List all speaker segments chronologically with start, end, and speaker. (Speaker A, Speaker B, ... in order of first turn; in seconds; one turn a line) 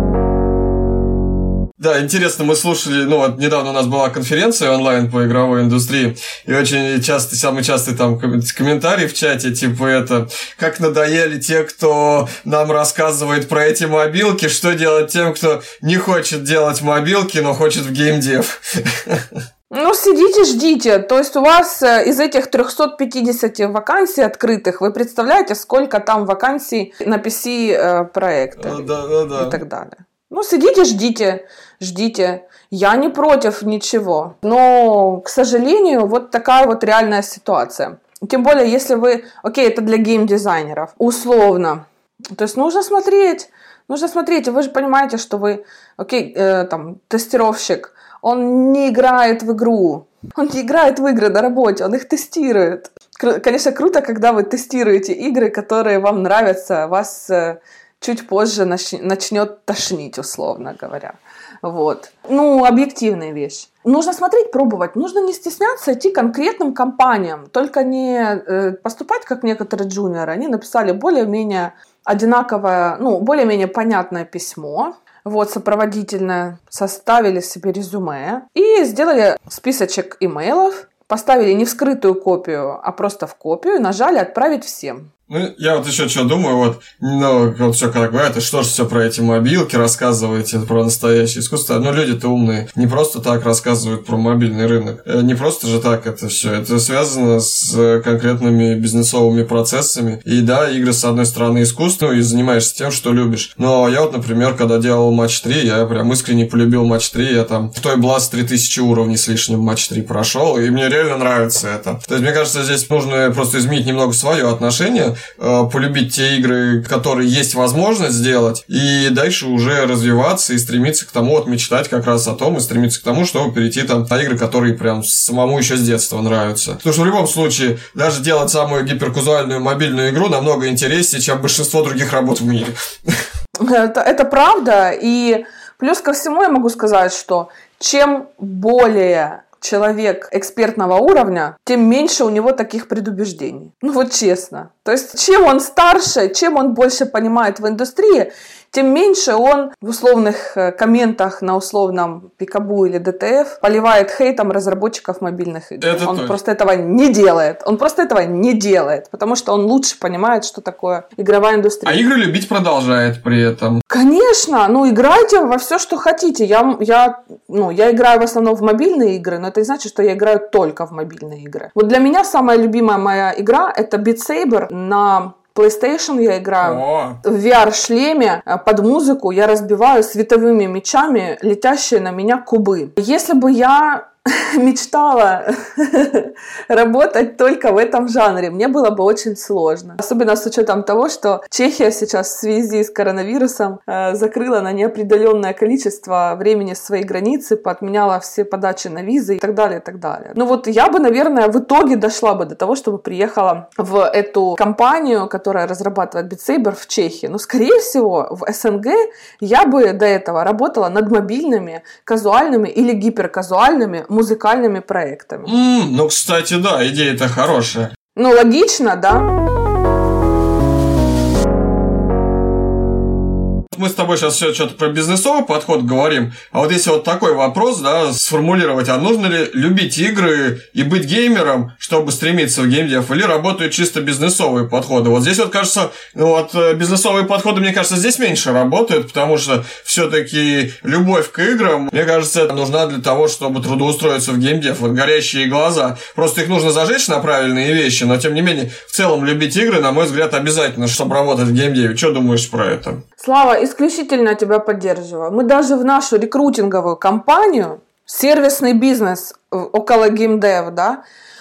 Speaker A: 1.8-19.4
Speaker B: 19.7-85.1
Speaker A: 28.6-29.6
Speaker A: 85.3-133.2
Speaker B: 133.6-162.0
Speaker A: 155.8-156.3
Speaker A: 161.8-163.8
Speaker B: 163.9-215.5
Speaker A: 176.6-177.2
Speaker A: 215.4-217.9
Speaker B: 218.2-219.3
Speaker A: 223.7-253.0
Speaker B: 253.2-261.0